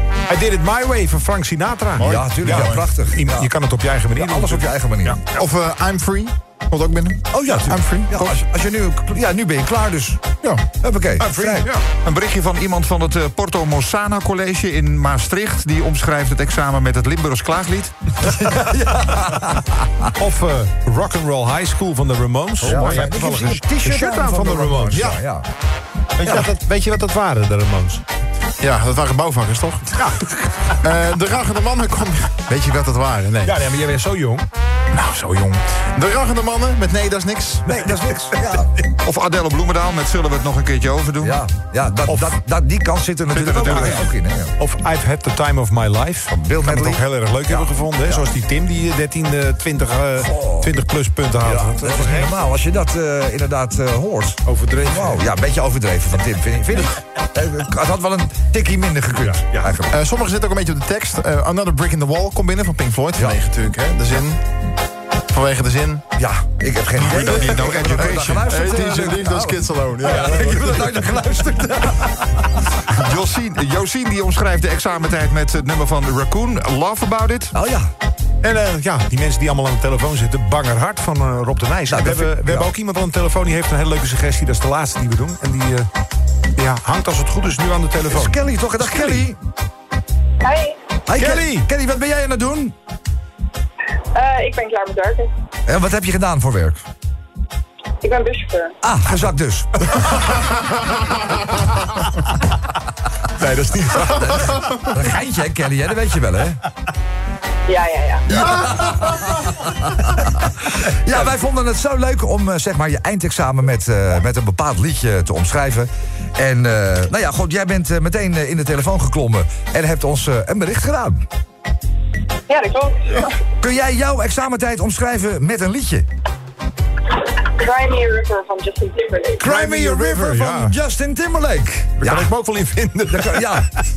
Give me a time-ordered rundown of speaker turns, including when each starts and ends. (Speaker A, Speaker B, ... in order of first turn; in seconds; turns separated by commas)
Speaker A: 0.3-5.2, Speaker B: 2.0-3.5, Speaker C: 2.0-2.9, Speaker B: 4.1-5.2, Speaker C: 5.3-8.4, Speaker B: 7.3-10.3, Speaker B: 10.8-11.7, Speaker A: 11.2-11.8, Speaker D: 11.9-17.9, Speaker B: 18.2-20.1, Speaker A: 20.2-25.2, Speaker B: 22.6-25.5, Speaker C: 24.9-25.2, Speaker A: 26.2-28.0, Speaker C: 28.6-29.9, Speaker A: 29.9-30.7, Speaker C: 30.8-33.6, Speaker A: 33.4-34.4, Speaker C: 34.9-37.6, Speaker B: 37.7-38.7, Speaker D: 39.0-41.4, Speaker B: 41.2-44.5, Speaker A: 42.1-42.4, Speaker A: 43.3-52.3, Speaker D: 43.4-44.0, Speaker B: 46.3-48.2, Speaker B: 50.2-50.7, Speaker B: 51.4-60.0, Speaker A: 54.5-55.2, Speaker A: 59.3-59.6, Speaker C: 59.9-64.4, Speaker C: 65.3-66.0, Speaker B: 66.2-72.5, Speaker D: 67.0-68.5, Speaker C: 67.1-70.8, Speaker A: 70.2-70.6, Speaker D: 72.9-77.5, Speaker B: 77.5-77.9, Speaker A: 78.4-85.9, Speaker B: 81.9-82.7, Speaker A: 86.5-89.3, Speaker B: 88.1-89.4, Speaker E: 90.4-90.8, Speaker B: 91.1-92.7, Speaker A: 91.2-91.7, Speaker E: 94.1-95.3, Speaker B: 95.7-96.8, Speaker E: 98.0-98.7, Speaker B: 98.8-100.4, Speaker A: 103.4-104.7, Speaker B: 104.1-106.6, Speaker E: 107.7-108.3, Speaker B: 108.3-121.2, Speaker E: 122.5-123.3, Speaker B: 123.6-126.1, Speaker E: 127.5-129.4, Speaker A: 129.4-130.7, Speaker B: 129.4-132.3, Speaker A: 132.0-133.8, Speaker B: 133.1-133.7